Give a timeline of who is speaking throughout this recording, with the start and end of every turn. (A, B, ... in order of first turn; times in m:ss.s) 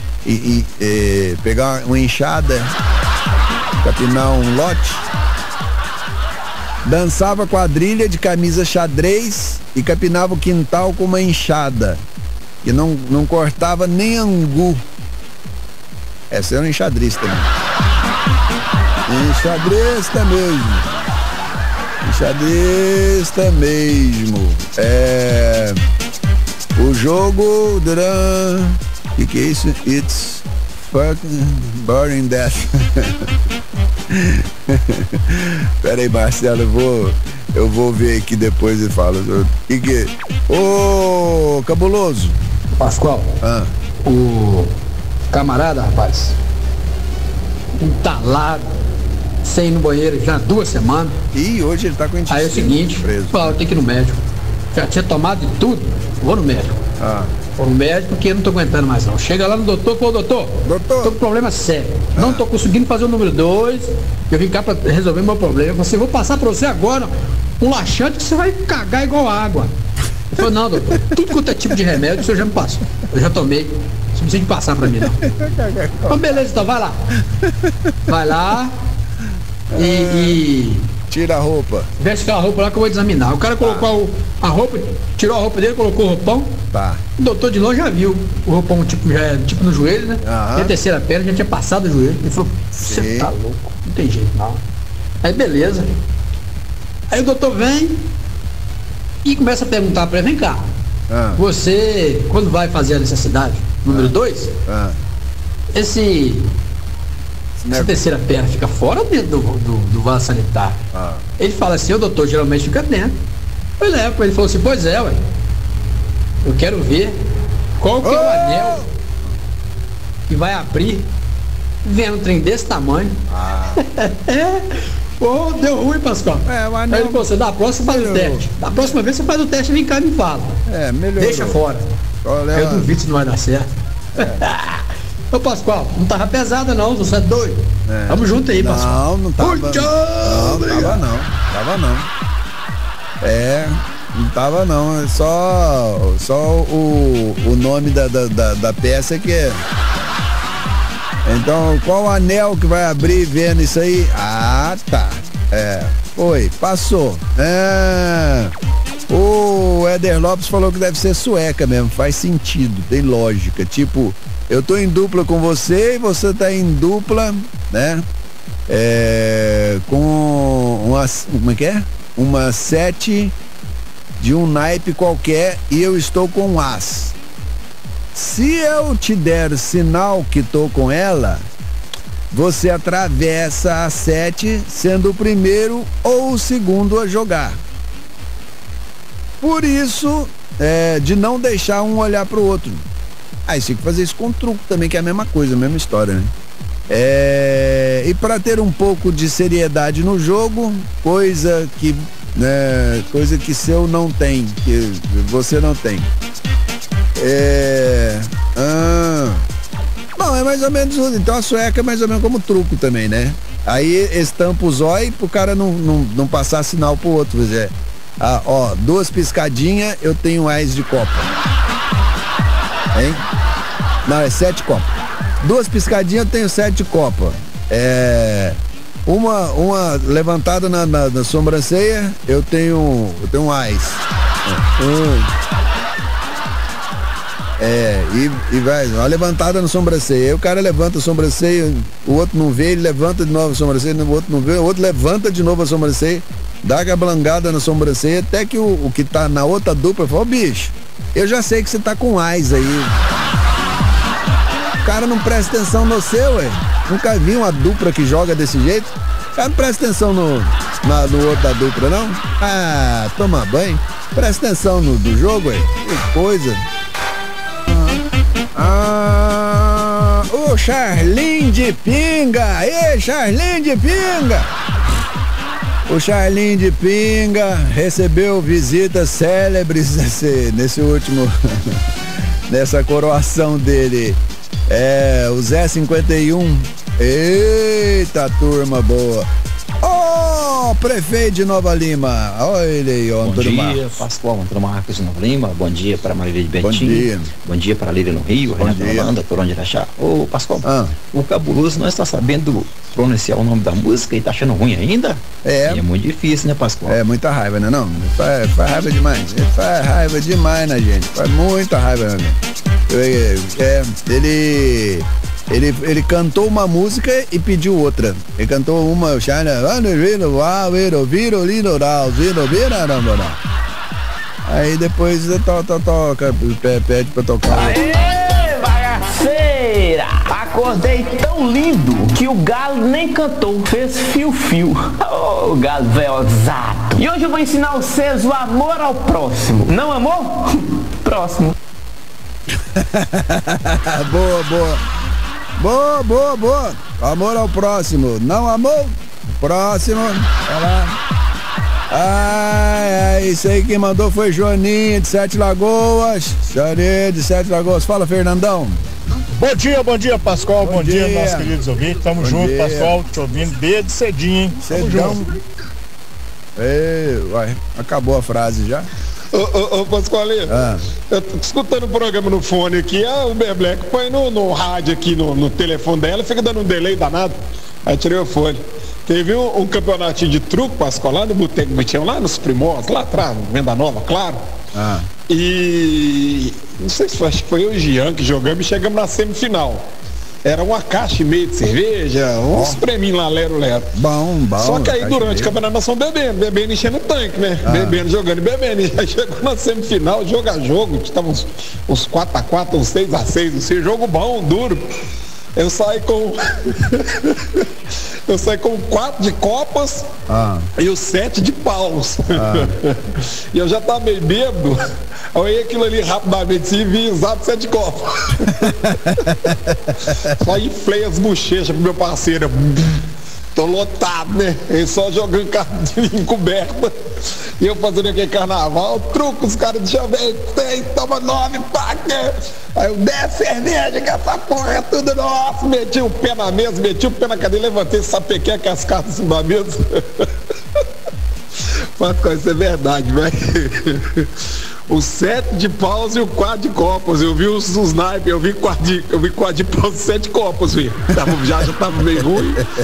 0:00.2-0:02.7 A
0:03.8-0:05.0 A
0:06.8-0:12.0 A
0:12.6-0:14.8 A
0:16.3-0:17.5 A
0:19.1-0:20.9 A
0:22.0-0:25.8 A
0:26.8-0:33.3 A
0:34.1-0:42.4 A
0:42.8-0:43.4 B
0:43.4-0:43.7 A
0:44.0-0:44.7 B
0:45.3-0:46.4 B
0:47.8-0:48.7 B
0:49.4-0:51.2 B
0:51.3-0:53.7 A
0:52.3-0:54.2 B
0:54.7-0:56.8 B
0:57.0-0:57.3 A
0:57.6-1:09.7 B
1:00.6-1:01.1 A
1:02.1-1:02.4 A
1:10.3-1:15.2 B
1:15.2-1:16.5 A
1:16.1-1:17.0 B
1:17.4-1:17.9 A
1:18.1-1:18.7 B
1:19.7-1:20.4 A
1:19.8-1:20.9 B
1:21.1-1:21.9 A
1:22.0-1:26.5 B
1:23.6-1:23.9 A
1:26.7-1:27.0 A
1:27.2-1:34.6 B
1:30.2-1:30.7 A
1:32.7-1:33.3 A
1:35.2-1:35.9 B
1:37.1-1:38.0 B
1:39.2-1:40.6 B
1:41.1-1:41.4 A
1:41.4-1:44.5 B
1:43.9-1:44.1 A
1:44.6-1:45.0 A
1:45.7-1:46.5 B
1:47.6-1:48.0 A
1:47.7-1:50.8 B
1:50.9-1:51.3 A
1:51.4-1:53.1 B
1:53.8-1:55.2 B
1:56.4-1:57.2 B
1:57.8-1:58.9 B
1:58.0-1:58.9 A
2:00.3-2:01.1 B
2:01.8-2:03.2 B
2:03.3-2:03.8 A
2:03.8-2:04.7 B
2:05.2-2:10.6 B
2:06.4-2:07.3 A
2:07.8-2:08.5 A
2:10.6-2:11.6 A
2:11.2-2:11.8 B
2:12.2-2:12.9 A
2:12.5-2:14.8 B
2:14.2-2:14.4 A
2:15.3-2:21.0 B
2:17.9-2:22.1 A
2:23.2-2:29.6 A
2:31.2-2:38.5 A
2:39.1-2:48.0 A
2:48.7-2:53.3 A
2:54.2-2:57.1 A
2:58.1-3:01.4 A
3:02.3-3:07.6 A
3:09.4-3:12.8 A
3:13.5-3:16.3 A
3:16.9-3:26.1 A
3:27.2-3:29.4 A
3:30.2-3:41.3 A
3:42.9-3:43.2 A
3:44.0-3:55.3 A
3:57.6-4:13.0 A
4:14.8-4:26.6 A
4:27.7-4:28.0 A
4:28.5-4:34.5 A
4:35.9-4:41.8 A
4:42.5-4:49.3 A
4:49.8-4:54.0 A
4:53.2-5:07.0 C
4:56.6-4:57.3 A
4:58.6-4:59.1 A
5:00.6-5:00.9 A
5:05.4-5:05.8 A
5:06.8-5:23.4 A
5:24.4-5:27.8 A
5:27.5-5:41.5 D
5:42.7-5:44.8 A
5:45.6-5:51.0 A
5:51.9-5:58.8 A
5:59.3-6:05.2 E
6:00.5-6:01.6 A
6:02.1-6:03.0 A
6:04.6-6:05.3 A
6:06.6-6:08.9 A
6:09.3-6:24.4 F
6:10.4-6:10.8 A
6:24.7-6:25.1 A
6:25.3-6:29.9 F
6:30.4-6:33.9 F
6:32.2-6:32.8 A
6:33.9-6:35.6 A
6:34.6-6:44.8 F
6:37.6-6:38.0 A
6:45.6-6:47.7 F
6:48.3-6:50.1 F
6:50.3-6:50.7 A
6:50.8-6:54.8 F
6:52.3-6:52.8 A
6:55.3-6:59.0 F
6:58.7-7:00.3 A
7:00.1-7:03.0 F
7:03.5-7:20.3 F
7:22.0-7:24.3 F
7:24.9-7:32.6 F
7:32.2-7:32.6 A